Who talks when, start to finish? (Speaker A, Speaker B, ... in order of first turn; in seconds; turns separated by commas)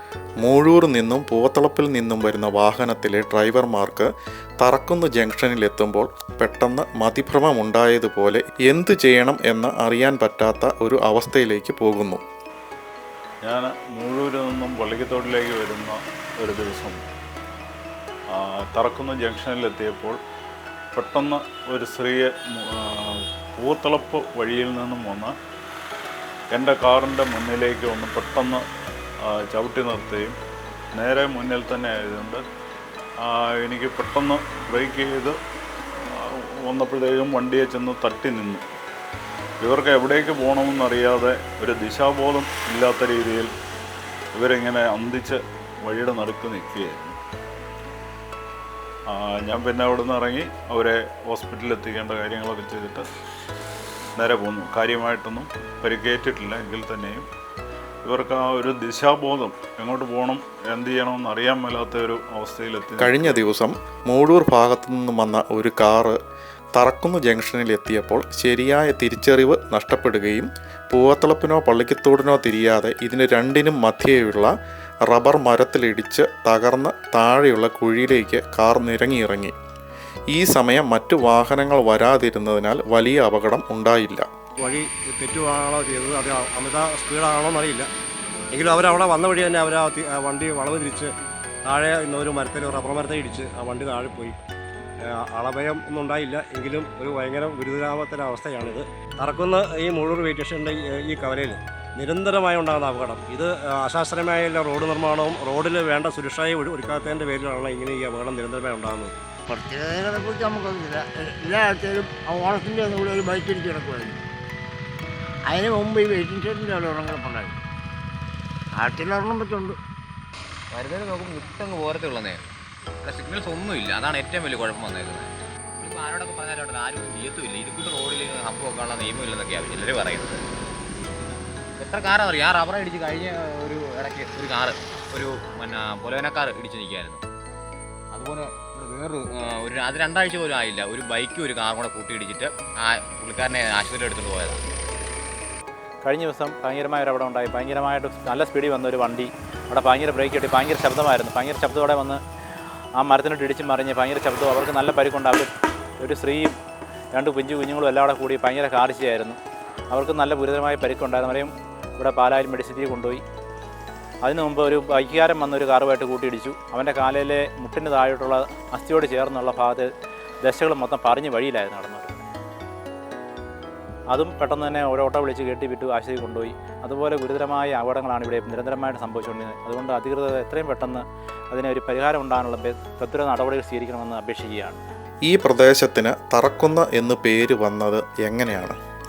Speaker A: 0.4-4.1, Speaker A: 4.6-12.2, Speaker B: 13.4-17.0, Speaker B: 18.3-20.2, Speaker B: 20.9-25.3, Speaker B: 26.5-28.6, Speaker B: 29.2-30.3, Speaker B: 30.9-32.4, Speaker B: 33.2-35.3, Speaker B: 36.1-38.6, Speaker B: 39.6-43.5, Speaker B: 44.3-47.2, Speaker B: 49.1-53.0, Speaker B: 54.2-57.3, Speaker B: 58.0-63.4, Speaker A: 63.0-66.2, Speaker A: 66.7-74.5, Speaker A: 75.1-79.5, Speaker A: 80.3-84.2, Speaker C: 84.6-87.9, Speaker C: 88.5-91.1, Speaker C: 91.7-94.4, Speaker C: 95.3-109.1, Speaker D: 109.5-114.2, Speaker D: 115.4-117.6, Speaker D: 118.7-119.8, Speaker E: 120.7-122.5, Speaker E: 123.0-130.4, Speaker E: 131.8-137.2, Speaker E: 138.1-144.6, Speaker F: 146.0-152.2, Speaker F: 153.0-156.6, Speaker F: 157.1-159.4, Speaker F: 159.9-163.2, Speaker F: 164.2-169.9, Speaker F: 170.4-172.2, Speaker F: 174.1-184.8, Speaker A: 185.3-188.8